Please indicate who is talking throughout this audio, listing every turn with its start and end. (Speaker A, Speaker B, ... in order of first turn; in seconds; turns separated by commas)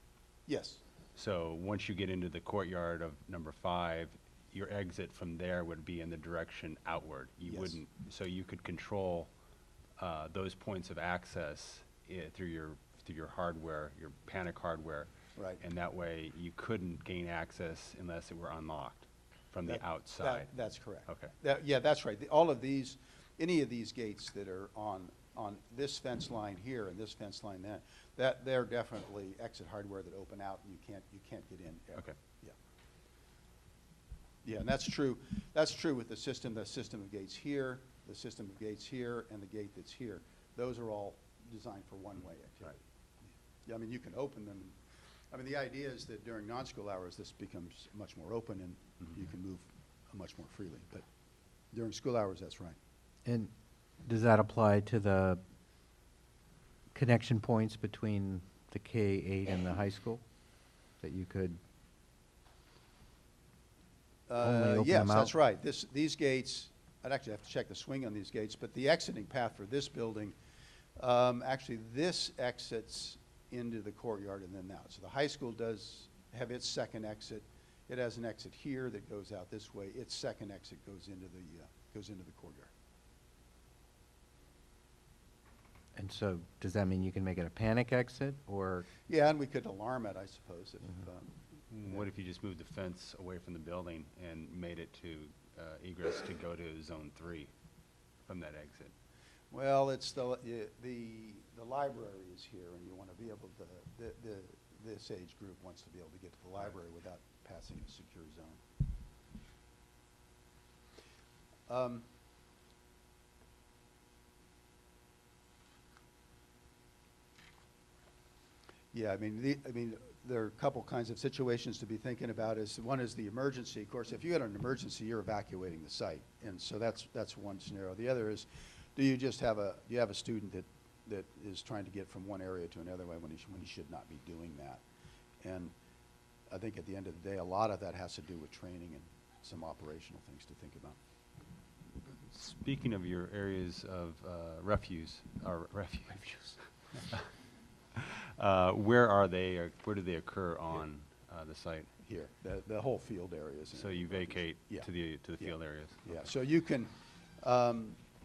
Speaker A: 0.5-0.8, Speaker B: 1.1-9.3, Speaker A: 7.5-7.8, Speaker B: 10.0-15.1, Speaker A: 15.3-15.6, Speaker B: 15.6-20.5, Speaker A: 19.6-32.5, Speaker B: 21.1-21.3, Speaker A: 34.4-42.8, Speaker A: 43.6-44.8, Speaker A: 45.3-51.0, Speaker A: 51.7-52.8, Speaker C: 53.2-53.5, Speaker C: 54.0-55.4, Speaker C: 56.9-60.2, Speaker C: 61.0-61.6, Speaker A: 64.3-70.3, Speaker C: 64.4-65.3, Speaker A: 71.0-82.7, Speaker C: 85.9-88.9, Speaker A: 89.0-92.0, Speaker B: 91.7-97.5, Speaker B: 98.3-98.9, Speaker A: 99.5-108.6, Speaker A: 111.7-112.0, Speaker A: 118.9-134.8, Speaker A: 135.4-135.7, Speaker A: 136.5-141.0, Speaker B: 142.3-147.2, Speaker B: 147.9-151.9, Speaker A: 152.0-158.0, Speaker B: 153.7-156.3